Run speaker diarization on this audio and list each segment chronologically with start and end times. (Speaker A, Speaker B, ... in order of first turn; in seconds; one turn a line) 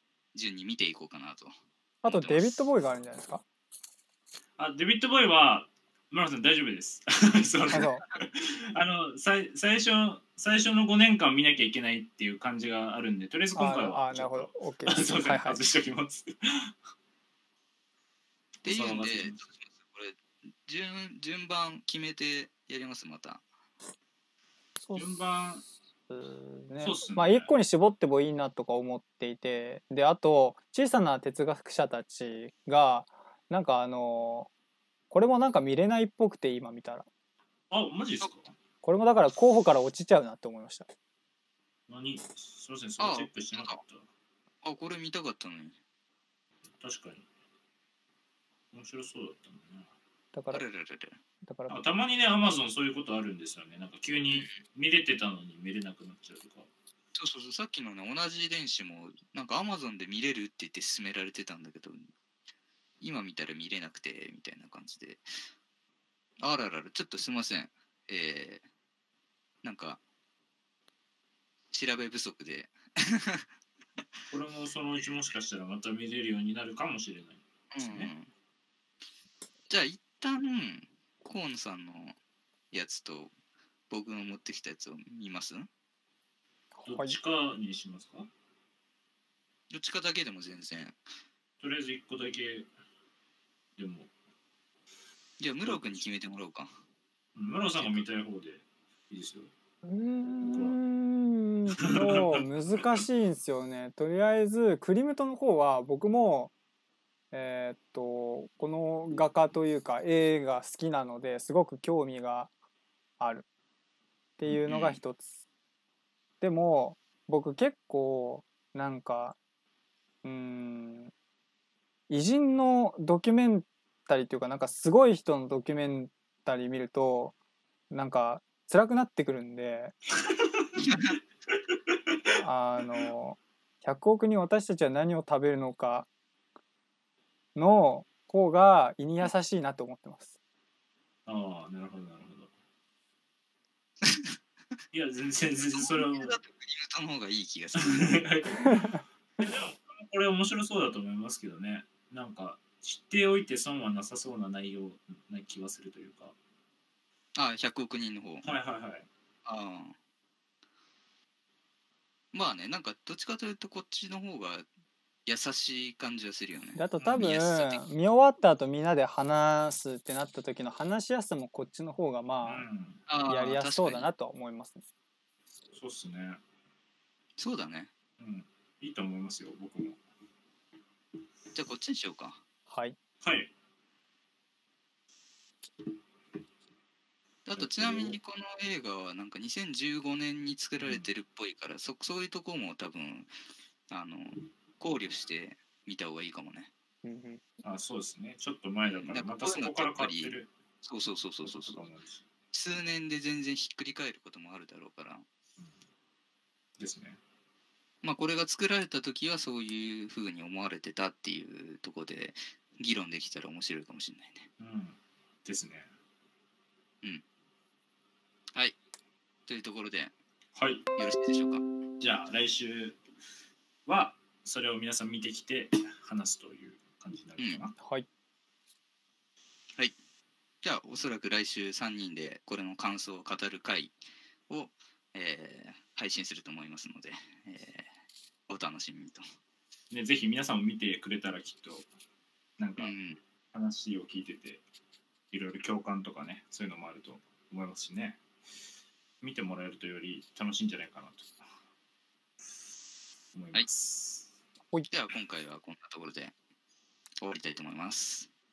Speaker A: 0.3-1.5
Speaker B: 2.0-3.4
Speaker A: 2.0-2.7
Speaker C: 4.6-16.7
Speaker B: 7.7-8.0
Speaker B: 13.5-15.6
Speaker C: 18.6-19.5
Speaker A: 18.6-23.4
Speaker B: 24.8-25.1
Speaker C: 24.9-25.7
Speaker B: 26.1-34.5
Speaker C: 26.8-27.5
Speaker B: 35.1-37.1
Speaker C: 37.7-38.5
Speaker B: 38.8-40.9
Speaker C: 41.9-44.1
Speaker A: 43.0-43.8
Speaker A: 44.6-45.8
Speaker C: 46.8-47.3
Speaker C: 48.7-49.9
Speaker B: 50.3-50.7
Speaker A: 50.5-51.2
Speaker B: 51.5-51.7
Speaker C: 51.7-56.7
Speaker A: 57.1-62.0
Speaker A: 63.0-65.2
Speaker A: 66.4-68.6
Speaker A: 69.6-70.0
Speaker A: 71.7-73.5
Speaker C: 74.3-78.1
Speaker A: 77.7-78.3
Speaker A: 79.7-82.2
Speaker A: 82.7-83.3
Speaker A: 83.9-85.7
Speaker B: 86.7-87.2
Speaker C: 86.8-88.3
Speaker A: 89.7-91.0
Speaker C: 91.6-92.7
Speaker C: 93.8-94.1
Speaker A: 95.4-96.7
Speaker C: 95.6-96.1
Speaker C: 97.3-99.5
Speaker A: 97.8-98.1
Speaker B: 99.8-106.5
Speaker C: 100.4-100.8
Speaker C: 101.8-103.0
Speaker B: 107.3-112.5
Speaker B: 113.2-113.5
Speaker B: 114.4-115.3
Speaker A: 114.7-115.0
Speaker B: 116.4-119.4
Speaker B: 120.2-121.1
Speaker B: 122.1-127.3
Speaker B: 127.9-129.9
Speaker C: 130.3-130.7
Speaker A: 130.8-131.2
Speaker C: 131.8-132.2
Speaker B: 132.4-136.1
Speaker B: 137.6-140.3
Speaker C: 141.3-142.5
Speaker A: 144.0-144.4
Speaker C: 144.9-146.4
Speaker A: 145.8-148.1
Speaker C: 147.8-156.3
Speaker A: 157.3-158.4
Speaker C: 158.4-159.1
Speaker A: 159.5-159.9
Speaker A: 162.3-164.7
Speaker A: 165.3-167.8
Speaker B: 166.7-172.7
Speaker C: 167.0-167.3
Speaker C: 172.4-173.1
Speaker A: 173.1-174.1
Speaker B: 173.2-174.8
Speaker C: 175.7-176.4
Speaker A: 177.4-177.9
Speaker C: 178.2-180.0
Speaker A: 181.5-182.4
Speaker B: 182.7-183.0
Speaker C: 183.2-183.5
Speaker A: 187.5-193.3
Speaker C: 187.6-188.2
Speaker C: 190.8-191.1
Speaker A: 193.9-196.7
Speaker B: 197.0-197.4
Speaker C: 197.6-200.5
Speaker A: 198.9-201.8
Speaker C: 201.4-202.2
Speaker A: 202.5-205.2
Speaker C: 206.8-207.2
Speaker A: 208.0-214.5
Speaker C: 214.6-215.9
Speaker A: 219.5-220.1
Speaker C: 220.6-220.9
Speaker A: 221.0-221.6
Speaker C: 222.0-223.0
Speaker C: 223.9-227.8
Speaker B: 227.8-228.1
Speaker A: 230.6-234.0
Speaker A: 234.5-237.9
Speaker A: 238.5-239.2
Speaker C: 239.9-241.9
Speaker C: 242.6-242.9
Speaker A: 242.8-243.2
Speaker C: 243.5-244.6
Speaker C: 245.3-248.2
Speaker C: 249.2-251.5
Speaker C: 253.3-254.3
Speaker A: 254.9-256.3
Speaker A: 257.2-258.3